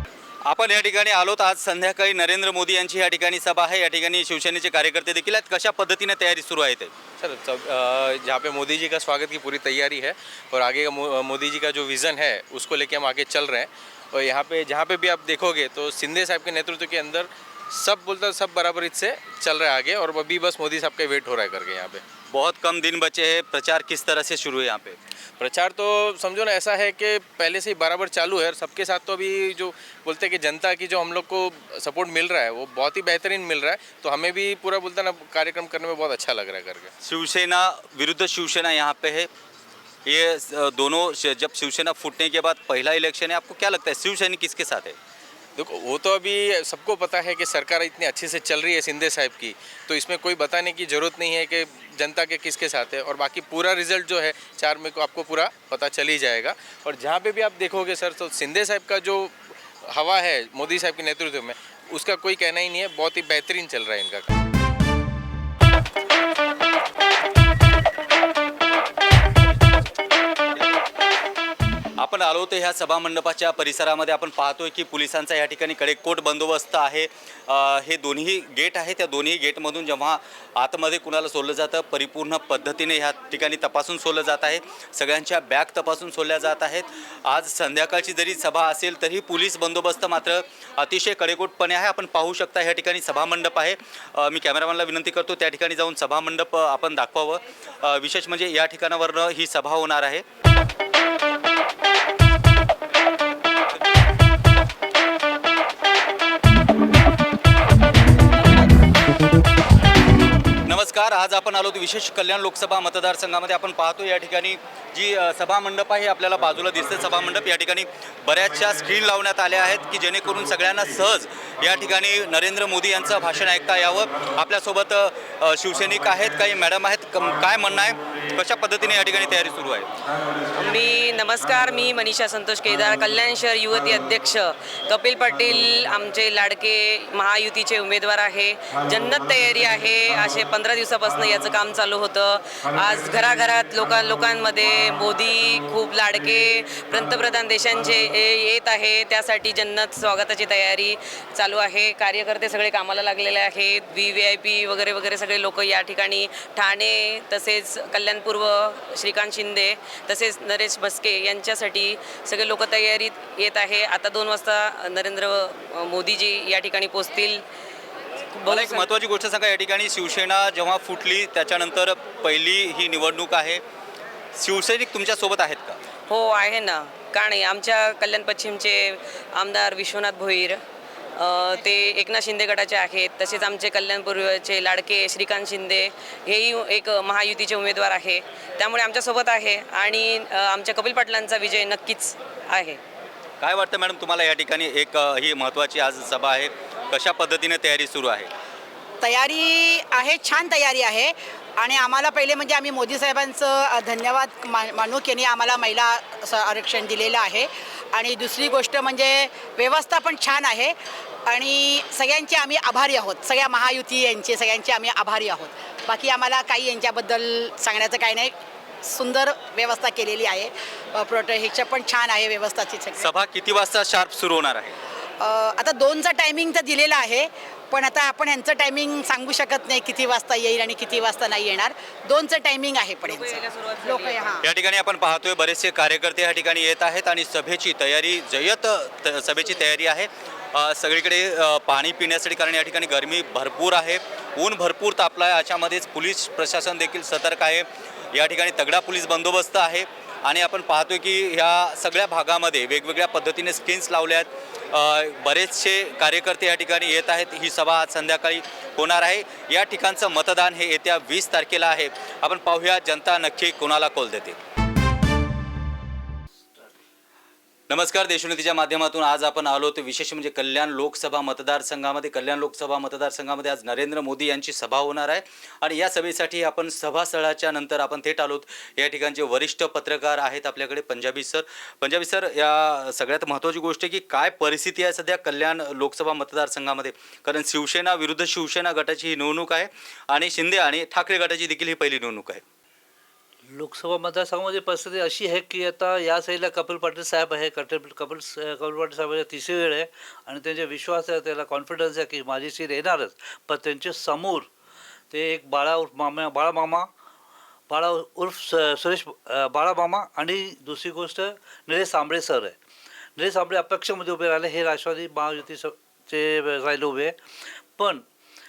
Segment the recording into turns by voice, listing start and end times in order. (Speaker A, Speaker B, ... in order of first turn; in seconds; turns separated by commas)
Speaker A: 0.5-6.9, Speaker B: 7.2-22.0, Speaker A: 22.3-25.0, Speaker B: 25.4-36.9, Speaker A: 37.0-39.3, Speaker A: 40.0-45.0, Speaker B: 45.6-64.3, Speaker A: 72.0-100.2, Speaker A: 110.7-129.9, Speaker C: 130.5-167.4, Speaker C: 168.3-168.9, Speaker A: 168.5-173.6, Speaker A: 174.3-175.8, Speaker C: 176.1-180.6, Speaker C: 181.2-192.8, Speaker A: 193.4-198.3, Speaker D: 199.0-210.7, Speaker D: 211.3-223.1, Speaker A: 223.0-224.8, Speaker D: 225.2-234.4, Speaker C: 233.0-234.3, Speaker A: 234.4-264.4, Speaker A: 267.7-292.4, Speaker E: 293.5-304.5, Speaker E: 305.1-306.9, Speaker E: 307.7-312.6, Speaker E: 313.2-317.1, Speaker E: 317.8-318.0